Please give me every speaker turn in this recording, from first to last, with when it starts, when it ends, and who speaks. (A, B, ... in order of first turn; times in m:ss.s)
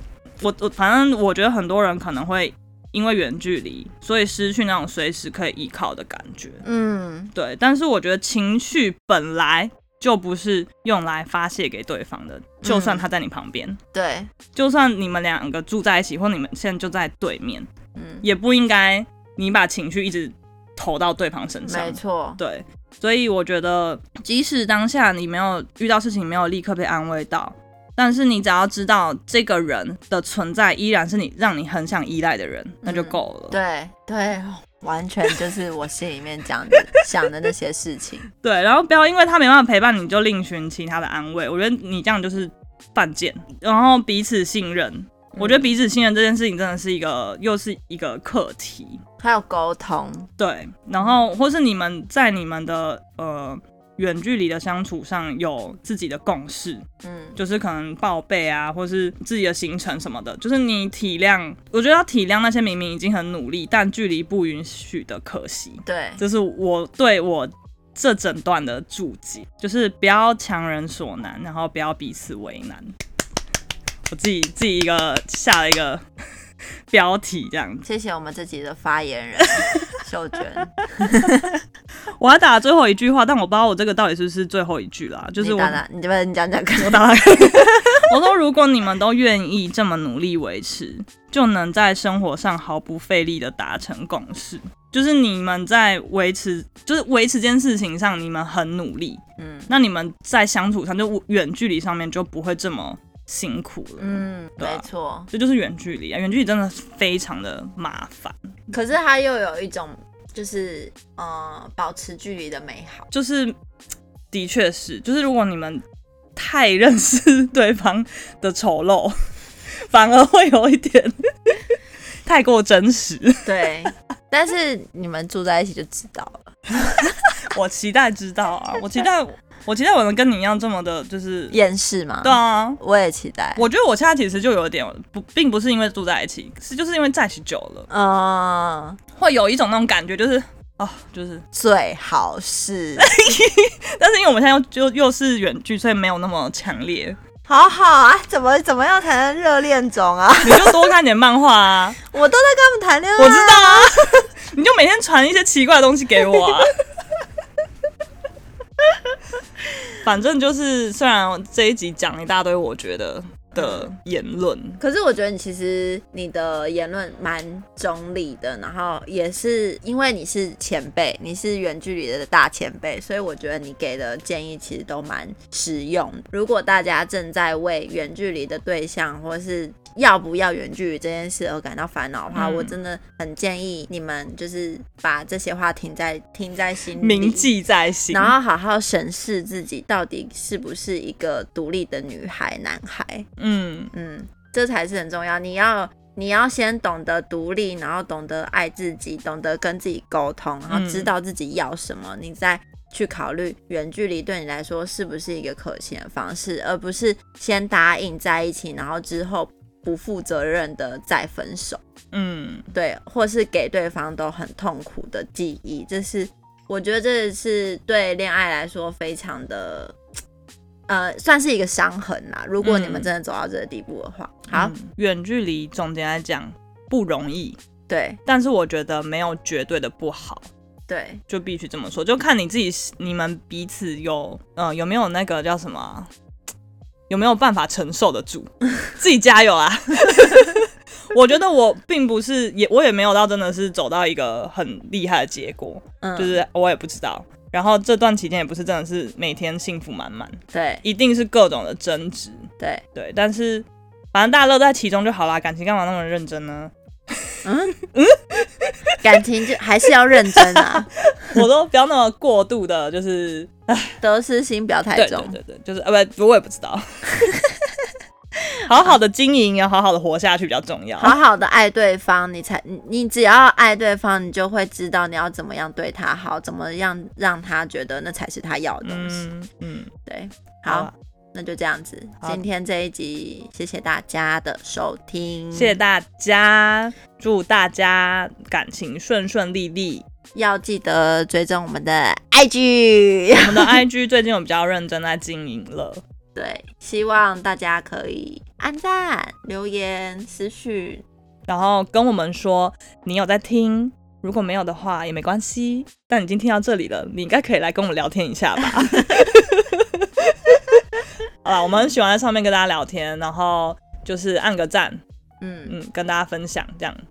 0:00.4-0:06.6 A
0:06.6-0:07.3 B
0:07.3-0:13.8 A
0:12.6-0:13.0 B
0:13.9-0:14.3 B
0:14.5-0:17.7 A
0:18.0-0:18.2 B
0:18.2-0:33.6 A
0:21.6-0:22.4 B
0:32.8-0:38.3 B
0:38.4-0:49.0 A
0:45.4-0:45.7 B
0:49.2-0:50.3 B
0:50.4-0:56.8 A
0:57.0-0:57.4 B
0:57.4-1:12.9 A
1:05.9-1:06.2 B
1:14.1-1:16.0 A
1:16.9-1:17.8 A
1:17.8-1:21.6 B
1:22.2-1:25.8 A
1:25.4-1:28.0 B
1:26.8-1:48.4 A
1:39.4-1:39.7 B
1:44.0-1:45.3 B
1:48.7-1:53.1 B
1:53.1-1:53.5 A
1:54.3-1:55.8 A
1:56.4-1:59.2 A
1:59.8-2:01.7 A
2:02.2-2:03.7 A
2:03.4-2:07.2 B
2:07.0-2:11.6 A
2:11.5-2:13.6 B
2:12.2-2:12.8 A
2:13.6-2:17.9 A
2:17.9-2:19.0 B
2:19.2-2:21.4 A
2:21.5-2:23.1 B
2:23.0-2:27.2 A
2:27.4-2:30.8 B
2:30.4-2:32.0 A
2:32.0-2:34.2 B
2:33.2-2:36.7 A
2:40.0-2:44.8 A
2:43.6-2:43.9 B
2:44.8-3:07.5 B
3:02.3-3:02.8 A
3:07.0-3:08.4 A
3:08.1-3:13.3 B
3:13.4-3:13.9 A
3:13.9-3:31.8 B
3:20.7-3:21.1 A
3:32.1-3:32.7 A
3:32.7-3:40.0 B
3:40.9-3:44.7 B
3:42.6-3:43.1 A
3:44.5-3:47.6 A
3:47.9-3:48.2 B
3:48.2-3:50.5 A
3:50.9-3:51.2 B
3:51.3-3:56.1 A
3:57.1-4:17.3 A
4:00.1-4:00.5 B
4:06.0-4:06.4 B
4:10.5-4:10.8 B
4:17.4-4:17.8 B
4:17.9-4:19.0 A
4:19.0-4:21.4 B
4:20.3-4:24.0 A
4:24.0-4:25.4 B
4:24.9-4:27.3 A
4:27.3-4:27.8 B
4:28.6-4:31.2 A
4:31.0-4:39.2 B
4:38.8-4:39.9 A
4:40.0-4:45.8 B
4:40.7-4:40.9 A
4:45.5-4:50.0 A
4:50.3-4:53.8 B
4:53.4-4:56.0 A
4:56.3-5:01.0 B
5:01.5-5:10.8 A
5:08.6-5:09.3 B
5:11.4-5:15.0 A
5:15.4-5:15.7 B
5:15.6-5:17.0 A